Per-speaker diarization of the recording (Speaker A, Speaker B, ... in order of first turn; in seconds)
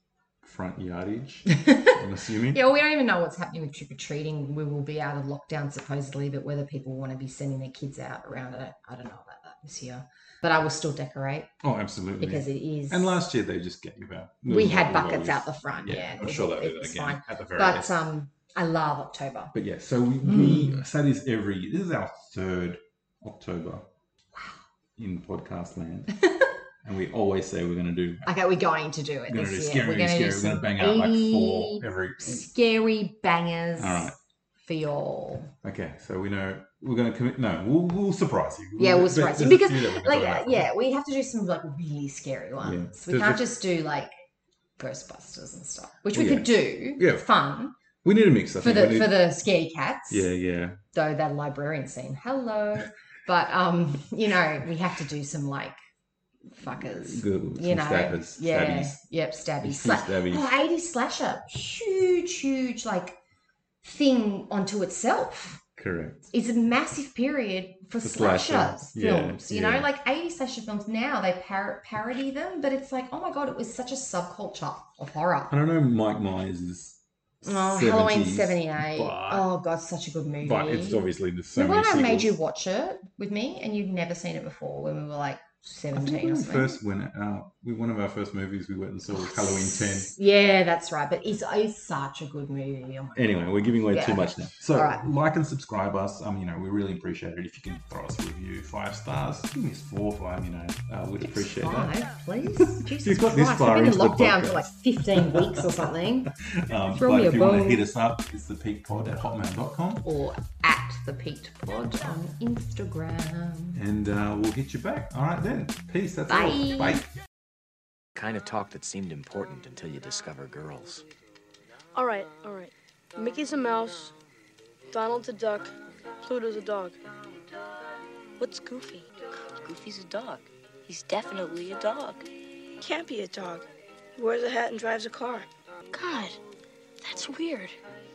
Speaker A: 0.4-2.6, 11.6-18.0, 19.5-23.9, 25.0-26.1, 26.8-28.3, 29.3-32.5, 33.8-34.1, 35.6-40.7, 42.6-43.5, 46.1-47.3, 48.0-49.2, 50.1-50.8, 56.7-59.0, 59.6-60.5, 65.8-66.3, 68.0-69.9, 75.5-79.5, 80.4-82.3, 85.9-90.1, 93.2-110.0, 113.7-117.1
Speaker B: 1.5-2.0, 2.5-11.5, 12.2-13.2, 14.5-19.5, 20.2-20.9, 28.3-35.5, 38.8-44.1, 44.8-47.7, 48.6-50.3, 50.9-55.8, 56.5-63.2, 63.8-65.6, 66.3-75.5, 77.4-81.0, 81.5-86.8, 89.1-93.3, 93.8-95.0, 101.2-106.3, 107.0-107.8, 110.0-113.8, 116.3-117.0
Speaker C: 118.2-121.0
Speaker D: 122.0-124.1, 124.9-127.0, 128.4-129.1, 132.8-136.4, 137.0-137.8
Speaker E: 129.6-132.3